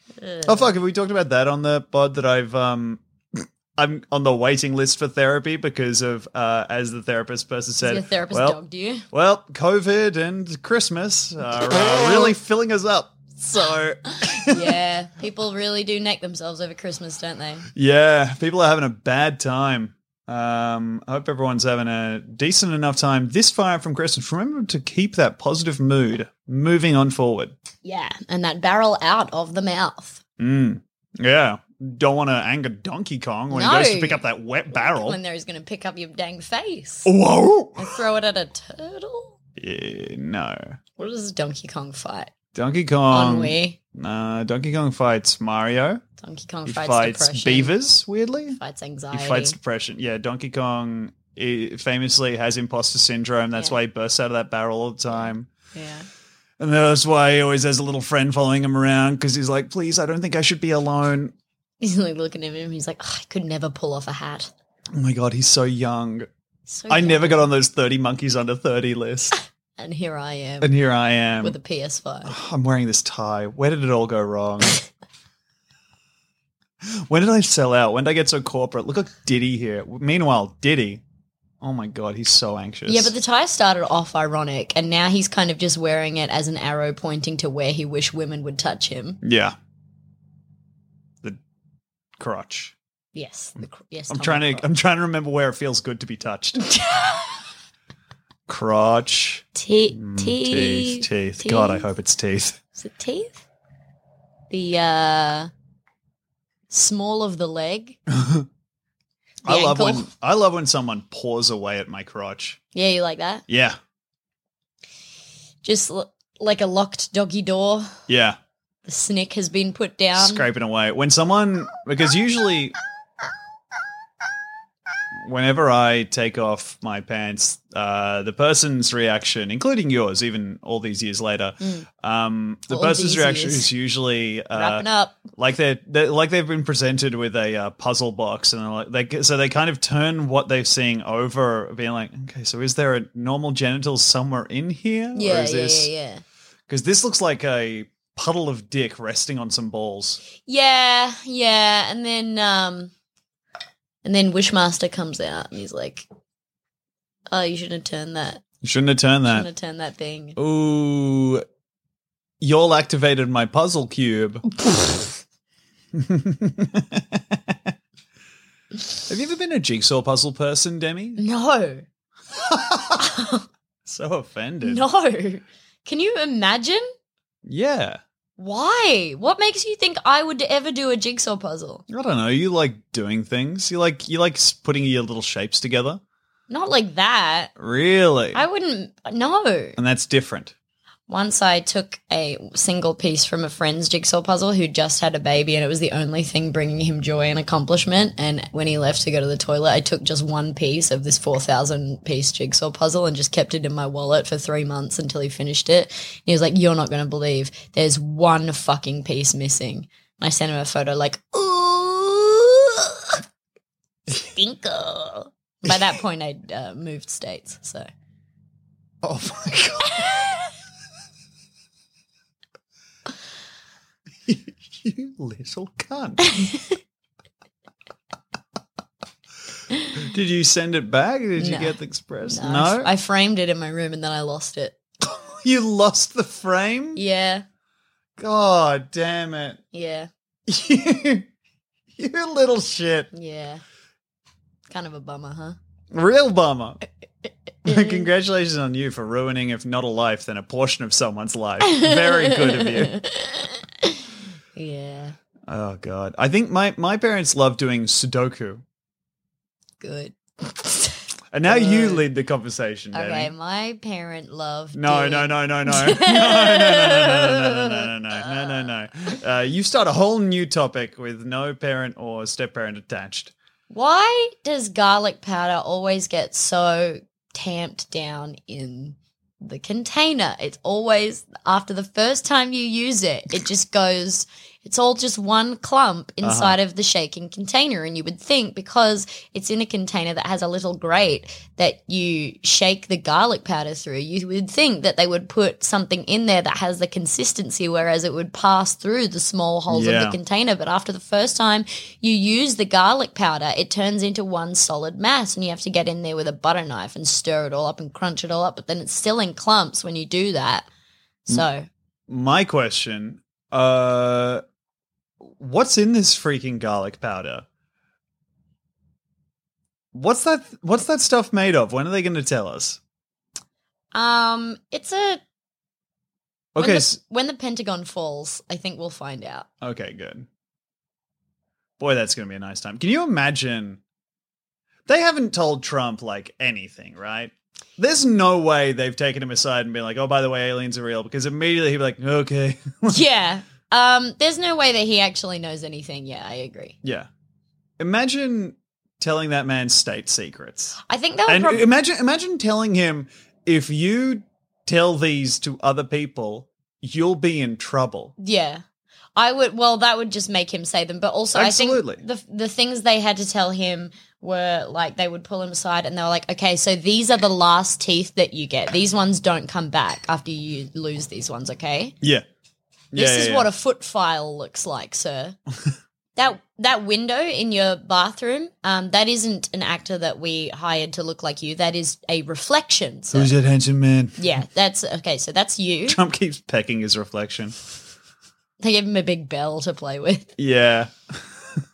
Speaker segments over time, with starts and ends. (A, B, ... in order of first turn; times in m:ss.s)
0:00.2-0:00.7 A
0:00.4-0:08.6 B
0:07.8-0:09.0 A
0:09.1-0:14.7 B
0:14.3-0:17.7 A
0:17.8-0:27.5 B
0:27.8-0:30.2 A
0:30.4-0:35.2 B
0:33.5-0:34.2 A
0:34.7-0:37.1 A
0:37.0-0:38.0 B
0:37.8-0:39.4 A
0:39.6-0:40.8 B
0:41.0-0:42.3 A
0:42.6-0:46.0 B
0:43.1-0:43.8 A
0:46.2-0:47.7 A
0:46.7-0:48.6 B
0:48.6-0:49.6 A
0:49.1-0:55.5 B
0:55.1-0:56.1 A
0:56.6-1:01.3 B
1:01.8-1:04.5 A
1:04.9-1:06.3 B
1:06.7-1:07.5 A
1:06.9-1:09.4 B
1:09.8-1:10.8 A
1:10.6-1:11.6 B
1:11.4-1:12.3 A
1:12.3-1:14.8 B
1:16.8-1:21.0 B
1:21.6-1:23.1 B
1:22.9-1:29.2 A
1:29.2-1:29.6 B
1:32.2-1:32.8 B
1:33.2-1:34.7 A
1:34.1-1:36.8 B
1:36.9-1:37.2 A
1:38.5-1:42.6 B
1:39.6-1:41.9 A
1:42.8-1:43.4 A
1:44.5-1:45.5 A
1:46.7-1:48.0 A
1:48.1-1:48.5 B
1:49.4-1:52.6 B
1:49.5-1:50.1 A
1:52.7-1:53.4 A
1:53.5-1:53.8 B
1:55.6-1:58.0 A
1:58.1-1:58.4 B
1:58.9-2:00.5 A
2:00.2-2:02.8 B
2:05.2-2:25.9 B
2:11.6-2:11.9 A
2:12.7-2:13.7 A
2:14.5-2:15.2 A
2:25.2-2:26.2 A
2:26.7-2:30.2 B
2:30.4-2:32.9 A
2:34.0-2:36.1 A
2:37.3-2:38.4 A
2:38.6-2:39.5 B
2:39.3-2:40.4 A
2:40.4-2:41.4 B
2:42.4-2:45.1 B
2:45.9-2:47.7 B
2:49.1-2:51.2 B
2:51.2-2:51.8 A
2:52.5-2:53.1 B
2:53.0-2:53.4 A
2:53.9-2:54.8 B
2:54.6-2:56.8 A
2:57.4-2:58.0 B
2:58.4-3:01.8 A
3:01.9-3:06.0 B
3:06.5-3:07.5 A
3:07.6-3:08.4 B
3:08.3-3:09.8 A
3:09.8-3:10.5 B
3:11.1-3:33.2 A
3:34.1-3:37.9 A
3:39.0-3:40.3 B
3:44.3-3:46.2 B
3:46.3-3:46.8 A
3:50.0-3:52.9 B
3:51.4-3:54.8 A
3:55.0-3:57.0 B
3:57.0-3:57.4 A
3:58.2-3:59.6 B
3:59.7-4:00.1 A
4:00.5-4:01.3 B
4:02.0-4:03.1 B
4:03.1-4:03.6 A
4:04.7-4:05.6 A
4:05.9-4:06.8 B
4:07.2-4:08.1 A
4:07.6-4:13.0 B
4:11.6-4:14.0 A
4:14.6-4:15.2 A
4:15.5-4:18.6 B
4:19.8-4:22.0 A
4:21.3-4:23.3 B
4:22.9-4:28.6 A
4:24.7-4:33.3 B
4:33.7-5:10.7 A
4:46.2-4:46.6 B
4:59.7-5:00.2 B
5:11.3-5:11.7 A
5:12.1-5:14.4 B
5:15.2-5:17.4 B
5:19.9-5:22.8 B
5:23.9-5:25.2 A
5:26.6-5:27.0 B
5:26.6-5:29.5 A
5:29.6-5:30.3 B
5:31.8-5:33.8 B
5:34.9-5:43.0 B
5:42.9-5:46.8 A
5:46.8-5:47.1 B
5:47.8-5:50.8 B
5:50.9-5:51.7 A
5:51.3-5:58.1 B
5:58.2-5:58.6 A
5:59.2-6:12.0 A
6:01.3-6:02.0 B
6:12.0-6:12.3 B
6:12.9-6:13.5 B
6:12.9-6:15.4 A
6:16.2-6:23.3 A
6:23.1-6:24.2 B
6:24.2-6:26.0 A
6:25.9-6:27.6 B
6:28.6-6:30.3 A
6:30.4-6:31.6 B